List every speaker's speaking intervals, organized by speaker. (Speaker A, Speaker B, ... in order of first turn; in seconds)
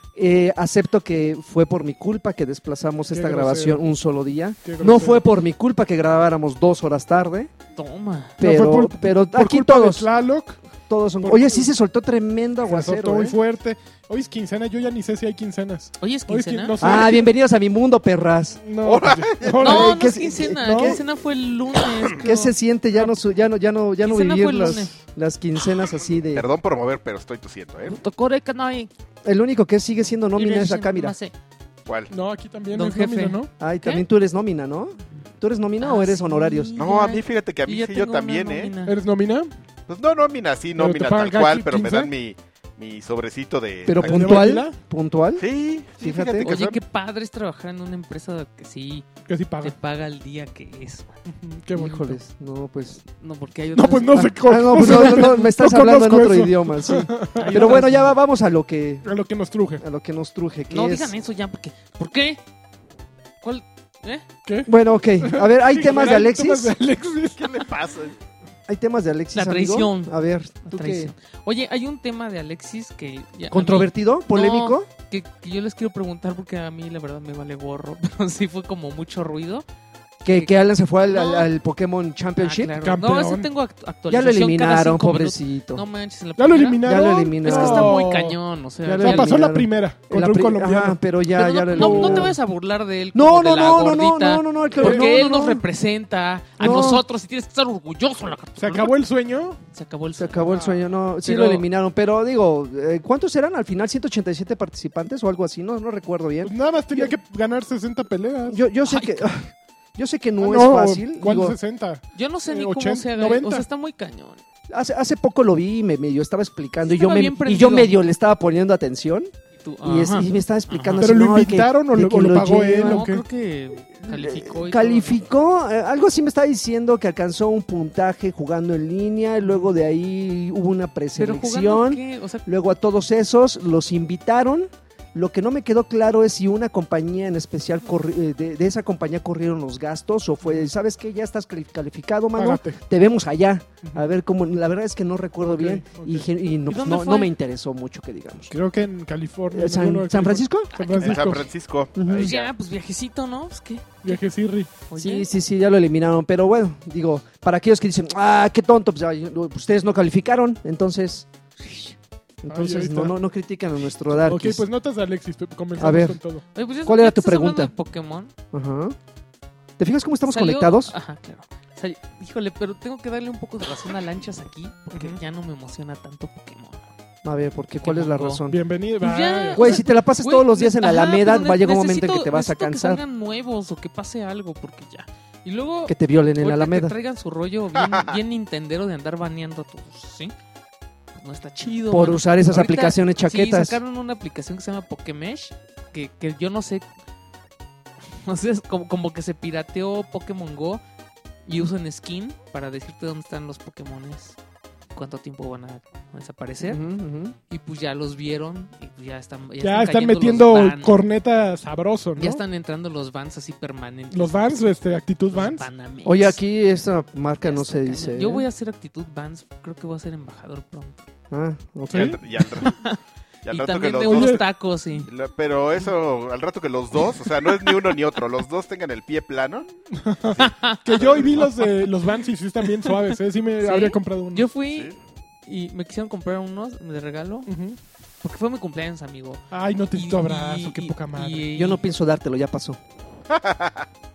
Speaker A: 0.1-7.5, 8.4-10.1, 10.9-13.4, 16.8-18.6, 19.6-21.0, 22.2-26.4, 29.2-31.1, 33.6-36.7, 43.8-45.4, 46.0-46.5, 51.7-53.0, 54.1-59.1, 59.8-61.1, 64.7-66.8, 68.7-71.1, 73.5-74.9, 80.2-82.8, 84.1-85.8, 86.8-88.0, 88.8-92.3, 93.1-95.6, 96.6-97.0, 100.2-107.1, 108.5-111.6, 114.7-119.3, 119.8-123.0, 124.0-148.5, 149.5-150.7, 151.9-152.3, 154.9-161.2, 162.4-164.6, 165.8-166.2, 166.8-167.7, 168.5-168.9, 169.8-170.9, 177.2-178.6, 179.5-183.0, 185.9-186.9, 191.9-193.8, 206.6-207.3, 216.0-218.4, 221.3-222.2, 241.6-242.8
Speaker B: 3.1-3.8, 4.6-5.2, 8.4-10.6, 11.2-11.7, 12.7-17.3, 18.6-19.9, 20.6-21.0, 32.1-33.5, 38.8-39.5, 40.8-42.1, 44.0-44.8, 49.3-49.7, 51.3-52.2, 53.7-57.9, 59.0-59.8, 64.4-67.6, 82.8-83.5, 86.4-88.4, 89.0-91.0, 91.7-92.3, 94.7-95.1, 98.6-99.6, 100.5-100.8, 106.4-108.6, 110.4-113.7, 121.0-123.2, 140.4-140.7, 142.3-142.8, 145.4-146.3, 148.5-151.5, 154.0-154.7, 162.5-163.1, 164.2-166.4, 174.9-175.2, 178.5-179.8, 209.6-212.4, 214.1-215.7, 221.9-222.2, 224.0-224.4, 229.9-234.5, 237.5-237.8, 239.5-241.5
Speaker C: 7.7-8.4, 16.0-16.8, 19.6-22.5, 24.0-24.9, 27.9-28.9, 30.4-31.3, 32.7-34.0, 35.8-39.0, 46.4-49.1, 49.6-51.1, 53.2-54.9, 57.4-58.1, 60.7-62.4, 63.4-64.2, 69.3-70.1, 70.6-79.6, 80.3-80.5, 81.0-81.5, 82.4-89.4, 91.3-99.0, 99.7-100.6, 101.2-101.6, 108.8-109.3, 112.1-114.4, 116.8-118.0, 119.6-121.0, 122.8-125.2, 131.2-132.4, 146.7-147.3, 150.7-151.2, 152.1-154.2, 154.9-155.3, 161.6-161.9, 166.5-168.3, 170.2-176.9, 177.8-178.4, 179.0-190.3, 191.2-196.8, 198.2-200.8, 201.4-204.4, 204.9-206.8, 207.5-210.9, 212.2-214.7, 215.3-216.4, 217.4-221.0, 222.5-225.1, 230.4-231.6, 232.8-234.9, 235.4-237.5, 238.2-241.9
Speaker D: 18.8-19.9, 26.3-28.0, 31.9-32.1, 36.8-38.7, 39.9-44.4, 45.4-46.8, 67.4-68.2, 151.0-152.5, 187.8-188.1, 221.9-222.8, 223.4-224.4, 225.0-229.7, 231.0-231.3, 234.7-234.9, 243.3-243.8